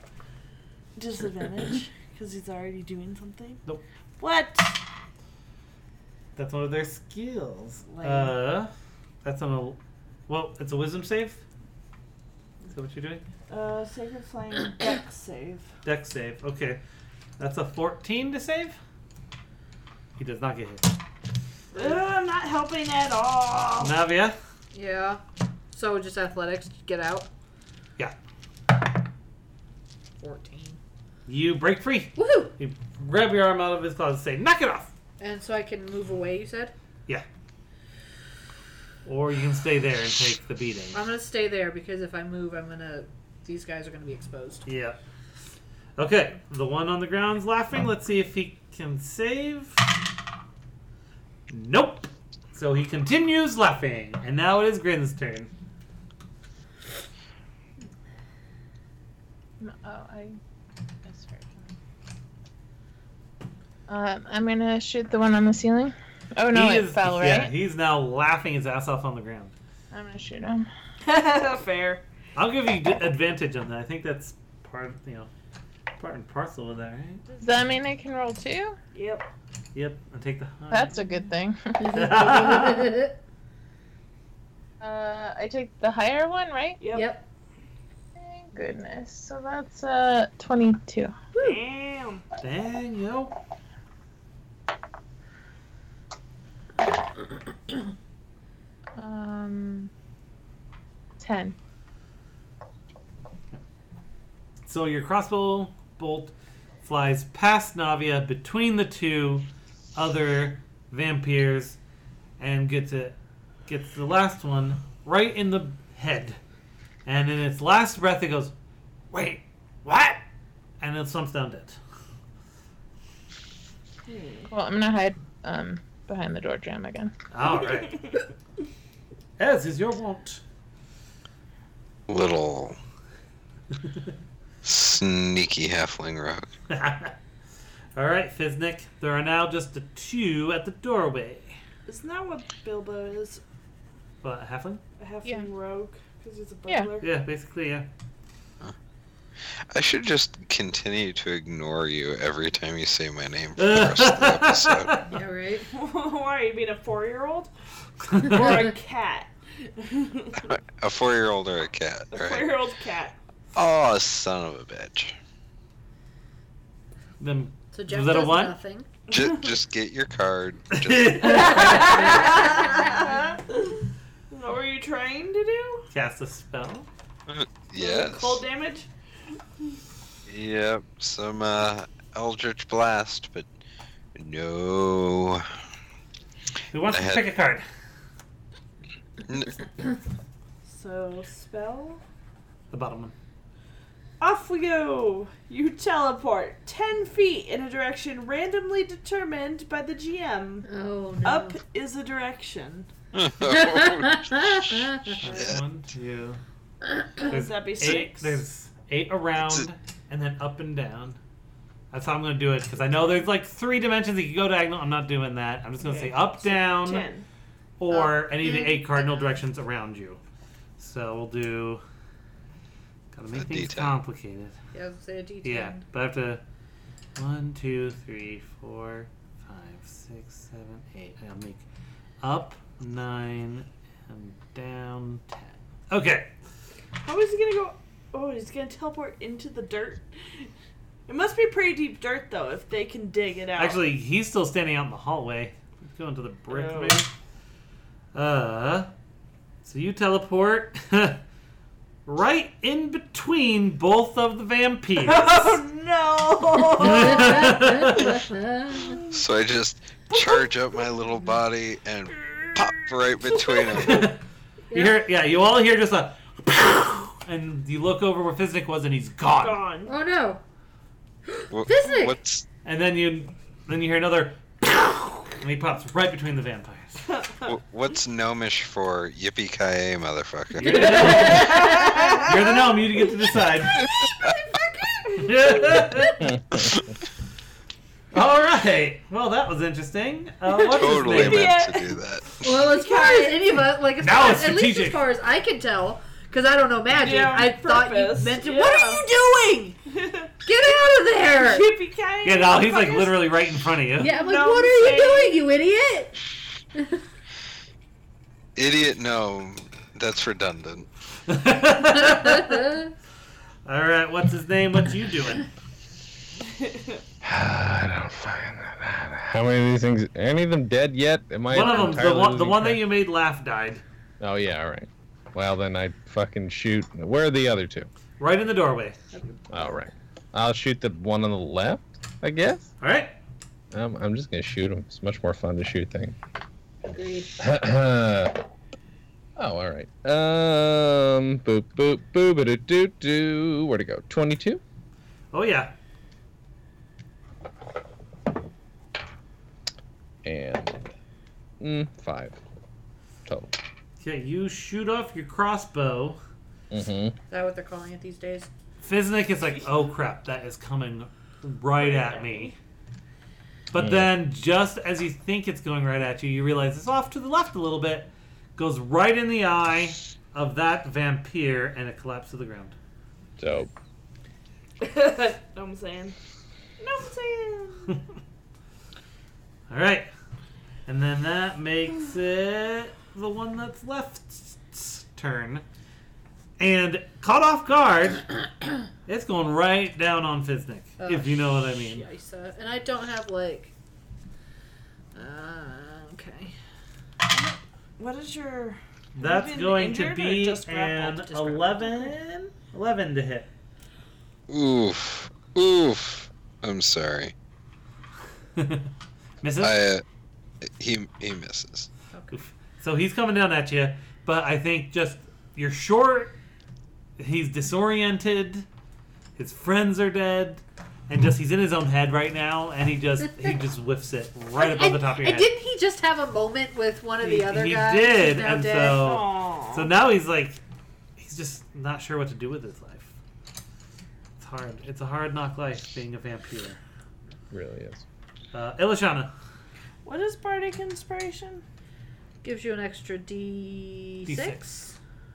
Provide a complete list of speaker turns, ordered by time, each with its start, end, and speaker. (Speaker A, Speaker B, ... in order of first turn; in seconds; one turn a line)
Speaker A: 1.0-3.6
Speaker A: 4.2-4.8
Speaker B: 6.3-8.7
Speaker A: 7.9-8.3
Speaker B: 9.2-11.4
Speaker B: 12.7-13.2
Speaker A: 13.5-15.7
Speaker B: 15.8-16.8
Speaker B: 17.4-18.8
Speaker B: 20.2-20.9
Speaker A: 21.7-23.9
Speaker B: 23.8-24.4
Speaker C: 24.7-25.2
Speaker C: 25.7-27.3
Speaker C: 30.2-30.8
Speaker B: 31.3-34.9
Speaker C: 32.1-32.5
Speaker C: 35.2-36.7
Speaker B: 39.0-41.0
Speaker C: 40.9-44.6
Speaker B: 44.6-45.0
Speaker B: 46.0-49.8
Speaker B: 51.5-55.5
Speaker D: 59.6-60.4
Speaker D: 61.0-61.7
Speaker D: 63.9-67.5
Speaker B: 66.5-69.5
Speaker D: 69.9-70.7
Speaker A: 71.0-72.0
Speaker B: 72.3-75.3
Speaker B: 76.0-77.2
Speaker D: 77.3-78.8
Speaker A: 78.9-79.3
Speaker B: 79.7-80.9
Speaker D: 80.7-82.1
Speaker C: 81.8-83.2
Speaker B: 81.9-83.0
Speaker D: 84.8-86.8
Speaker A: 86.8-87.1
Speaker C: 86.9-87.2
Speaker D: 88.2-91.2
Speaker A: 91.3-92.2
Speaker B: 92.4-93.3
Speaker D: 99.0-99.9
Speaker D: 101.2-101.5
Speaker B: 104.6-111.8
Speaker B: 112.4-113.2
Speaker B: 113.7-116.4
Speaker B: 117.0-118.5
Speaker B: 119.1-120.2
Speaker B: 120.8-121.8
Speaker A: 124.0-124.5
Speaker D: 124.5-127.1
Speaker B: 127.3-128.0
Speaker B: 129.4-130.4
Speaker E: 132.1-132.8
Speaker E: 134.6-136.5
Speaker B: 136.7-137.1
Speaker B: 137.9-141.6
Speaker A: 141.8-143.4
Speaker B: 144.2-144.8
Speaker A: 145.0-147.2
Speaker B: 147.0-147.9
Speaker E: 149.4-155.0
Speaker B: 153.6-155.1
Speaker C: 155.1-155.7
Speaker A: 155.7-157.5
Speaker B: 158.1-158.5
Speaker A: 158.1-160.5
Speaker E: 160.4-162.5
Speaker A: 162.1-163.1
Speaker E: 163.5-165.1
Speaker B: 167.2-168.5
Speaker C: 167.7-168.9
Speaker E: 169.1-171.7
Speaker A: 169.1-169.5
Speaker B: 170.7-172.6
Speaker C: 171.2-173.2
Speaker A: 171.6-175.9
Speaker B: 175.9-176.9
Speaker E: 177.3-178.4
Speaker A: 177.7-178.9
Speaker E: 180.3-183.5
Speaker E: 184.2-185.4
Speaker B: 186.7-187.6
Speaker E: 186.9-187.2
Speaker E: 189.3-189.7
Speaker A: 190.7-192.0
Speaker B: 192.7-193.1
Speaker A: 194.2-200.7
Speaker C: 200.7-201.6
Speaker A: 201.2-202.9
Speaker E: 203.1-205.6
Speaker C: 203.4-205.2
Speaker B: 205.2-206.4
Speaker A: 207.2-208.4
Speaker B: 207.3-211.2
Speaker B: 211.9-217.1
Speaker A: 215.8-217.2
Speaker B: 217.8-220.2
Speaker A: 217.9-218.6
Speaker B: 220.8-221.8
Speaker B: 223.1-224.6
Speaker E: 223.3-223.9
Speaker C: 224.7-225.8
Speaker B: 225.4-226.4
Speaker B: 227.2-231.6
Speaker B: 232.2-236.3
Speaker A: 237.0-240.5
Speaker A: 241.1-243.8
Speaker B: 243.6-247.1
Speaker A: 246.5-247.0
Speaker B: 248.1-248.9
Speaker B: 249.6-251.2
Speaker B: 252.1-255.5
Speaker A: 255.0-258.0
Speaker C: 256.8-259.0
Speaker B: 256.8-258.2
Speaker A: 258.7-259.1
Speaker E: 259.1-264.1
Speaker A: 260.1-260.9
Speaker A: 262.2-264.1
Speaker B: 263.8-264.2
Speaker C: 264.7-264.9
Speaker B: 264.7-269.6
Speaker A: 269.4-269.9
Speaker C: 269.8-270.4
Speaker E: 271.5-272.4
Speaker C: 271.6-272.1
Speaker B: 272.6-277.0
Speaker A: 277.1-277.5
Speaker E: 277.4-281.4
Speaker B: 280.6-283.8
Speaker C: 280.7-282.2
Speaker A: 280.8-282.1
Speaker A: 283.7-285.8
Speaker E: 283.7-284.4
Speaker B: 285.2-286.2
Speaker F: 286.2-286.6
Speaker B: 288.1-291.6
Speaker E: 290.7-292.4
Speaker A: 290.8-293.6
Speaker C: 292.4-299.8
Speaker B: 294.0-295.0
Speaker A: 296.9-299.0
Speaker A: 299.9-300.3
Speaker C: 300.4-301.7
Speaker A: 301.3-303.1
Speaker B: 302.2-304.1
Speaker C: 304.0-306.2
Speaker A: 304.0-305.4
Speaker C: 306.7-307.0
Speaker E: 308.6-310.9
Speaker B: 311.3-312.7
Speaker C: 312.0-312.9
Speaker B: 313.6-315.4
Speaker A: 316.5-317.0
Speaker F: 317.2-322.8
Speaker B: 321.5-323.8
Speaker F: 324.2-327.9
Speaker B: 328.2-329.0
Speaker F: 329.5-332.7
Speaker B: 332.8-333.1
Speaker F: 333.7-336.1
Speaker C: 336.8-337.3
Speaker F: 337.4-338.4
Speaker F: 339.4-344.6
Speaker B: 345.3-345.7
Speaker F: 350.2-350.9
Speaker F: 351.6-352.4
Speaker F: 353.3-353.5
Speaker B: 354.0-356.2
Speaker F: 356.7-357.1
Speaker C: 357.3-358.5
Speaker B: 358.8-362.5
Speaker A: 361.8-362.6
Speaker B: 363.7-372.8
Speaker F: 363.7-364.1
Speaker F: 373.4-373.7
Speaker A: 374.8-376.1
Speaker A: 376.8-378.0
Speaker B: 379.7-380.1
Speaker B: 380.9-385.6
Speaker B: 386.6-388.5
Speaker B: 389.0-392.0
Speaker C: 391.0-393.7
Speaker C: 395.1-396.5
Speaker A: 397.3-401.2
Speaker B: 399.1-403.5
Speaker C: 401.2-402.1
Speaker E: 404.5-407.3
Speaker B: 408.6-408.9
Speaker B: 409.4-409.8
Speaker E: 409.6-410.0
Speaker E: 410.6-411.9
Speaker C: 412.1-412.4
Speaker B: 412.3-416.4
Speaker B: 417.2-418.6
Speaker B: 419.4-425.5
Speaker C: 424.5-429.1
Speaker B: 427.2-430.6
Speaker A: 428.8-429.9
Speaker B: 431.2-433.1
Speaker B: 434.4-436.8
Speaker F: 437.5-438.0
Speaker B: 438.5-439.3
Speaker A: 440.0-441.6
Speaker C: 442.4-444.7
Speaker B: 444.2-444.9